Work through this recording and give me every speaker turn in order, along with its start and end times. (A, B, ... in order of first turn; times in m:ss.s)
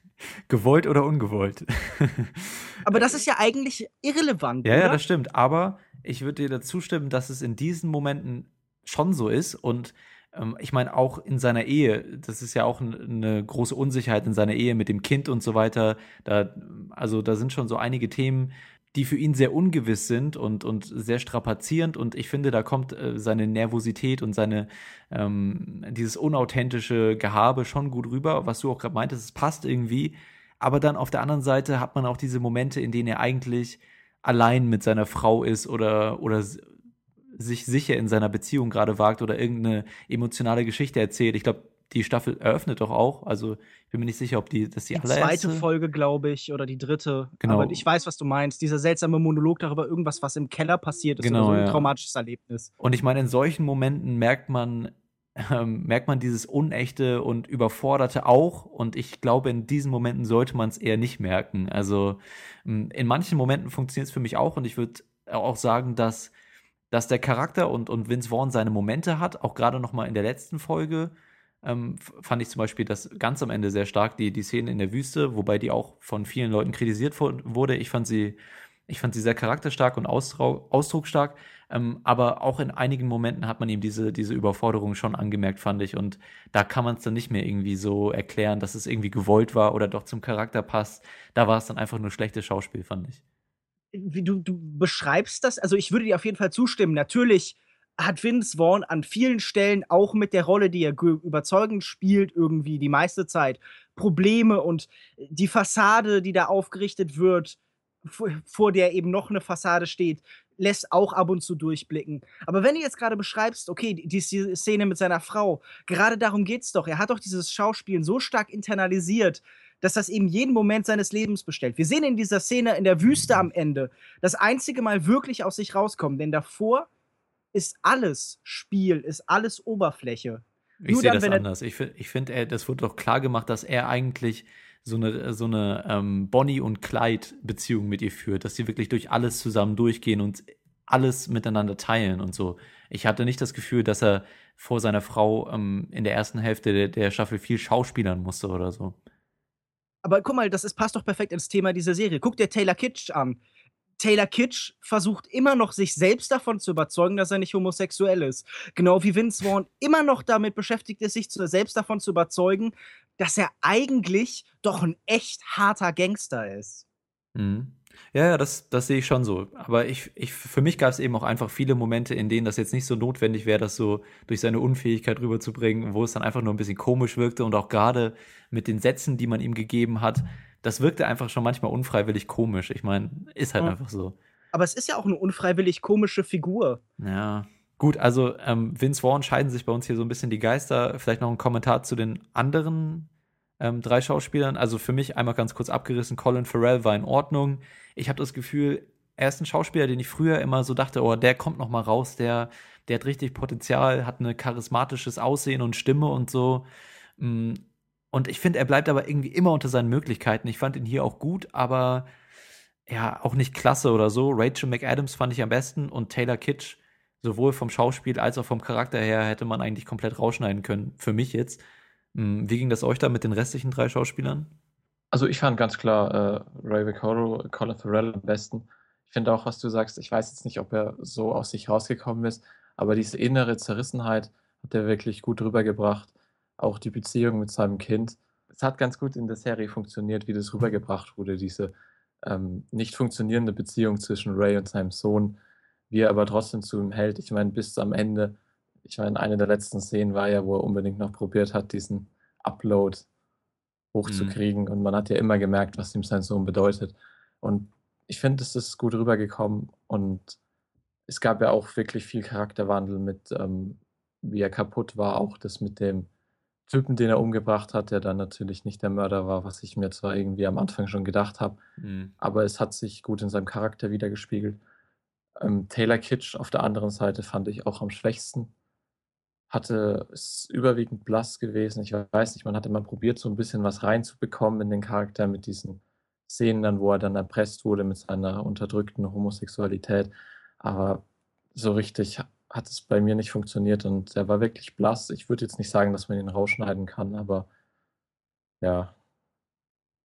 0:00.5-0:03.1 A
0:02.8-0:05.0 B
0:04.6-0:36.6 A
0:37.4-0:45.6 A
0:44.9-0:52.7 B
0:47.4-0:47.8 A
0:51.2-0:51.9 A
0:52.8-1:06.3 A
1:06.9-1:18.4 A
1:18.9-1:33.2 A
1:33.9-2:06.9 B
2:07.5-2:11.4 B
2:10.8-2:29.0 A
2:30.0-2:33.4 B
2:34.0-2:46.8 B
2:47.3-3:04.1 A
3:04.5-3:06.8 B
3:07.0-3:13.1 A
3:13.6-3:26.6 A
3:27.2-3:32.1 A
3:32.9-3:41.6 A
3:42.1-3:44.5 A
3:45.1-4:01.7 C
4:02.2-4:05.4 C
4:05.9-4:13.0 C
4:13.9-4:20.4 C
4:14.0-4:14.4 A
4:21.1-4:26.1 C
4:26.7-4:31.6 C
4:31.8-4:32.1 A
4:32.2-4:34.6 C
4:35.4-4:38.5 C
4:39.5-4:57.5 C
4:58.6-4:58.9 C